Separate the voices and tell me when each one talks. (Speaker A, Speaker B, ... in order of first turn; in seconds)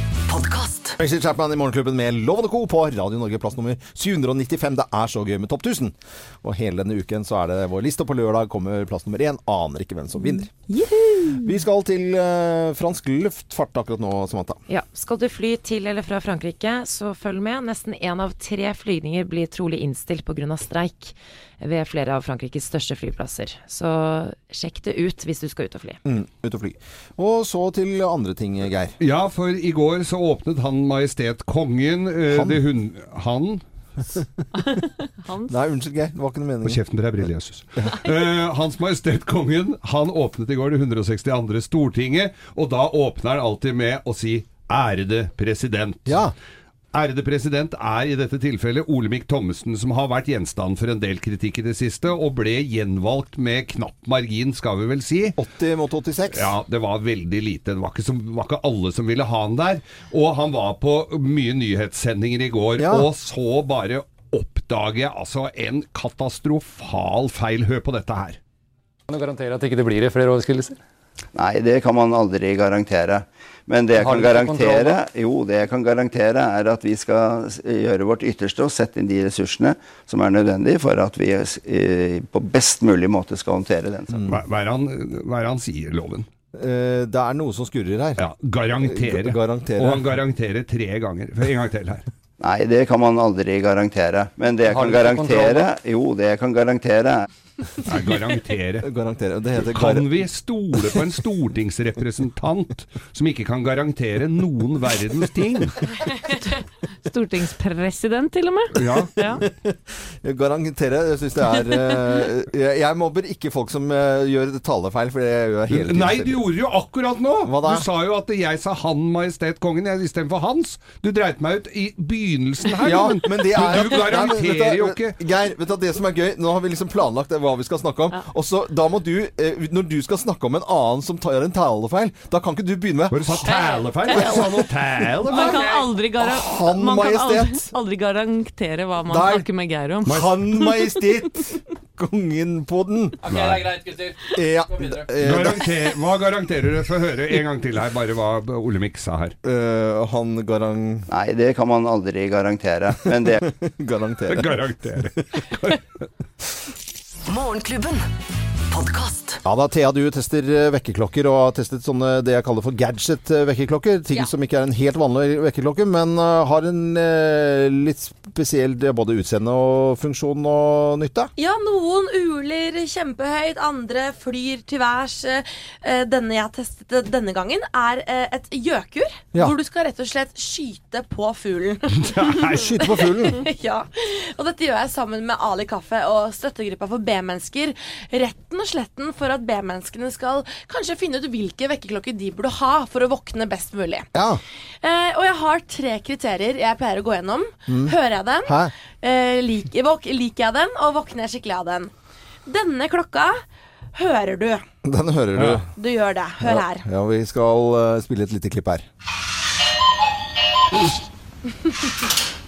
Speaker A: 0.3-1.0, 157.3-158.1, 158.7-159.4
Speaker B: 1.0-10.5, 11.4-14.6, 26.0-28.9, 32.3-32.6, 35.5-36.8, 46.0-46.3, 55.4-56.6, 62.8-63.1, 84.1-84.4, 86.5-88.2, 88.8-90.1, 98.8-100.1, 109.2-116.4, 117.4-117.8, 122.8-133.5, 134.1-134.7, 136.2-137.7, 139.1-139.5, 140.0-143.3, 144.3-145.9, 149.4-151.1, 153.1-155.1, 159.4-171.3, 182.5-183.4, 194.1-194.4, 197.7-198.7, 204.8-205.7, 206.4-208.8
Speaker C: 10.3-11.6, 34.6-35.6, 106.2-106.5, 107.0-109.4, 133.5-134.4, 135.3-141.3
Speaker D: 14.7-26.0
Speaker E: 29.0-33.6, 36.6-46.2, 46.9-55.4, 56.3-68.4, 84.3-86.3, 88.2-92.0, 97.8-98.9, 99.6-105.8, 108.7-109.1, 115.7-125.2, 133.1-135.7, 140.1-140.3, 143.3-143.8, 145.2-149.3, 154.3-156.0, 182.0-183.2, 205.3-205.6
Speaker F: 69.1-70.8, 73.9-75.0, 94.6-95.7, 143.3-144.2
Speaker G: 71.3-84.2, 92.4-97.2, 151.1-153.5
Speaker H: 171.3-182.4, 183.2-194.1, 194.8-201.9, 202.5-203.4, 203.9-204.6, 205.8-206.8